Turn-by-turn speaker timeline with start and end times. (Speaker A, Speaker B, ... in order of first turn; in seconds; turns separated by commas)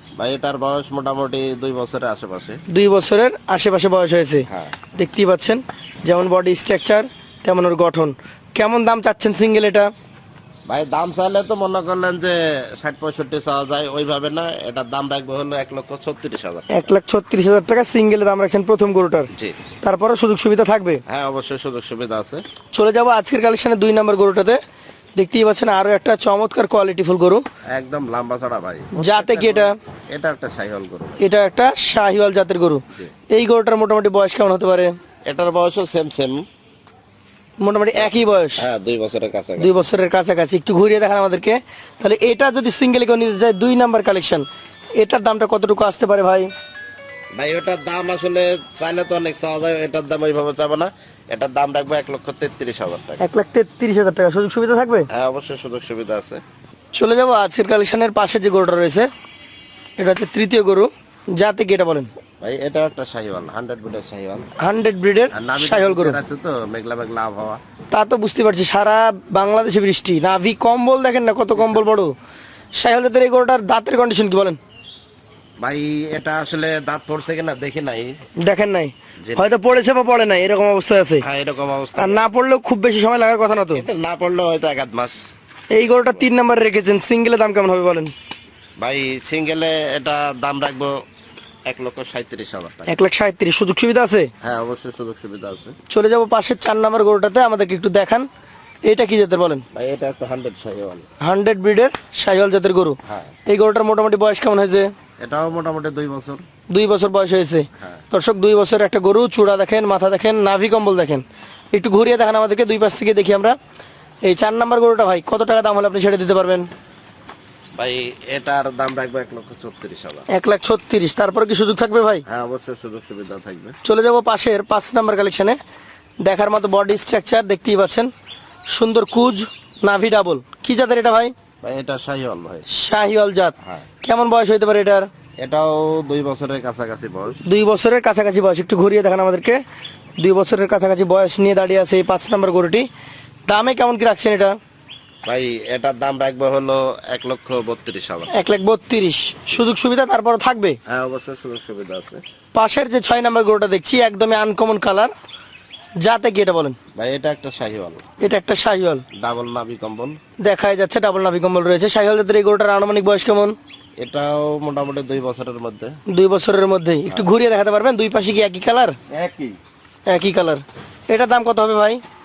Speaker A: 0.2-2.6, Speaker B: 2.7-9.9, Speaker A: 4.5-4.7, Speaker A: 10.7-16.8, Speaker B: 16.7-19.3, Speaker B: 19.8-21.0, Speaker A: 21.1-22.4, Speaker B: 22.7-24.6, Speaker B: 25.1-27.4, Speaker A: 27.7-31.2, Speaker B: 28.9-29.7, Speaker B: 31.2-34.9, Speaker A: 35.2-36.4, Speaker B: 37.6-38.6, Speaker A: 37.9-39.8, Speaker B: 39.6-46.5, Speaker A: 47.3-53.2, Speaker B: 53.2-55.1, Speaker A: 55.1-56.4, Speaker B: 56.9-59.1, Speaker B: 60.0-62.1, Speaker A: 62.4-64.5, Speaker B: 64.6-66.2, Speaker A: 65.3-67.6, Speaker B: 67.9-72.1, Speaker A: 71.5-71.9, Speaker B: 72.8-74.6, Speaker A: 75.6-78.1, Speaker B: 78.4-81.2, Speaker A: 79.2-79.5, Speaker A: 81.2-82.2, Speaker B: 82.0-83.8, Speaker A: 83.7-85.2, Speaker B: 85.7-88.1, Speaker A: 85.8-86.3, Speaker A: 88.8-91.0, Speaker A: 91.7-93.0, Speaker B: 92.9-94.3, Speaker A: 94.4-95.7, Speaker B: 95.9-98.3, Speaker B: 98.8-99.6, Speaker A: 99.7-101.1, Speaker B: 101.2-104.9, Speaker A: 103.0-103.3, Speaker A: 105.2-106.4, Speaker B: 106.7-113.5, Speaker B: 114.2-116.7, Speaker A: 117.7-120.2, Speaker B: 120.3-122.2, Speaker A: 122.3-123.8, Speaker B: 123.8-125.6, Speaker B: 126.2-128.1, Speaker B: 128.7-131.3, Speaker A: 131.6-132.7, Speaker B: 132.7-135.1, Speaker A: 135.4-137.4, Speaker B: 137.4-139.6, Speaker B: 140.2-142.9, Speaker B: 143.5-144.6, Speaker A: 145.2-148.4, Speaker B: 148.3-150.8, Speaker A: 150.9-152.2, Speaker B: 152.5-155.1, Speaker B: 156.0-156.8, Speaker A: 156.9-158.0, Speaker B: 158.2-159.0, Speaker A: 159.1-160.2, Speaker B: 160.4-163.5, Speaker A: 164.0-166.0, Speaker B: 166.1-168.9, Speaker A: 169.1-169.6, Speaker B: 170.1-172.0